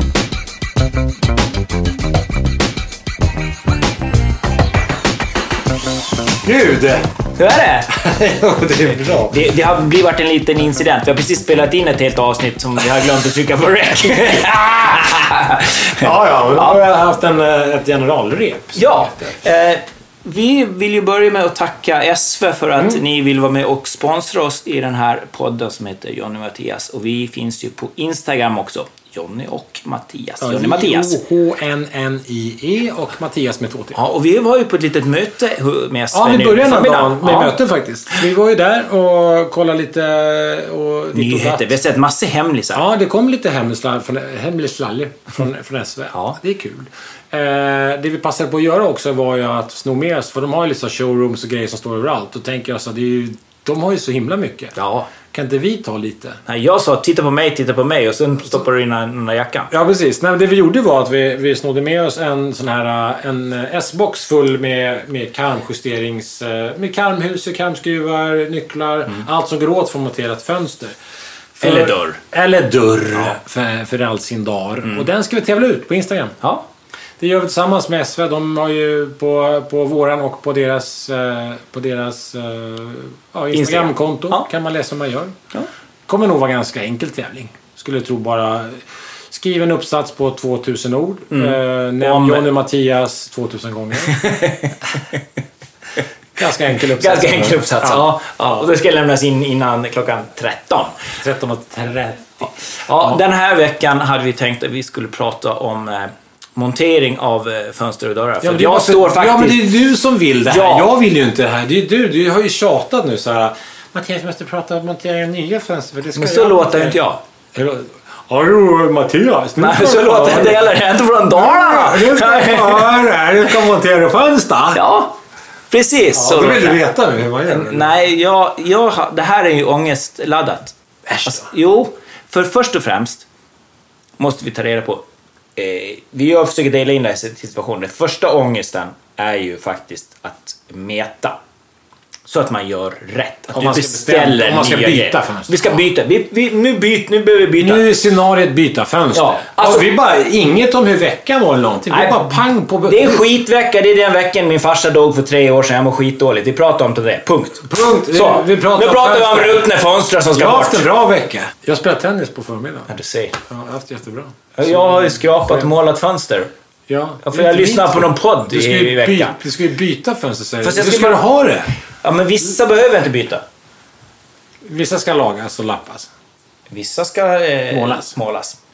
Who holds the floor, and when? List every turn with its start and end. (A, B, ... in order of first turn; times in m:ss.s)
0:06.4-0:07.1 A
0:07.4-0:07.9 B
0:07.9-0:09.4 A
0:09.3-0:16.8 B
0:14.9-0:15.2 A
0:15.9-0:19.4 A
0:18.7-0:31.2 B
0:30.4-0:34.0 A
0:33.9-0:37.6 B
0:36.1-0:41.8 A
0:41.1-0:42.8 B
0:42.7-0:54.7 A
0:54.8-0:55.1 B
0:55.3-0:56.4 A
0:56.4-0:59.7 B
0:59.7-1:11.0 A
1:11.6-1:16.4 A
1:11.6-1:12.2 B
1:17.2-1:25.3 A
1:23.5-1:24.5 B
1:26.1-1:34.2 A
1:31.3-1:32.5 B
1:34.1-1:35.0 B
1:36.4-1:38.0 A
1:36.9-1:41.0 B
1:41.2-1:43.2 A
1:42.9-1:49.7 B
1:48.4-1:57.0 A
1:50.4-1:50.9 B
1:56.1-1:57.2 B
1:57.5-2:00.7 A
1:59.6-2:03.2 B
2:01.3-2:04.8 A
2:04.7-2:05.2 B
2:05.7-2:06.8 B
2:06.1-2:07.9 A
2:07.4-2:13.2 B
2:11.1-2:11.4 A
2:14.2-2:15.0 B
2:15.6-2:21.4 B
2:22.2-2:27.9 B
2:23.5-2:25.8 A
2:27.6-2:33.2 A
2:29.1-2:29.9 B
2:31.9-2:40.8 B
2:37.6-2:39.7 A
2:40.3-2:42.9 A
2:42.9-2:43.4 B
2:43.4-2:45.7 A
2:44.6-2:46.5 B
2:46.9-2:51.7 A
2:47.2-2:49.4 B
2:50.6-2:51.2 B
2:52.0-2:53.4 B
2:54.6-2:56.1 A
2:56.7-2:58.6 B
2:57.7-2:58.1 A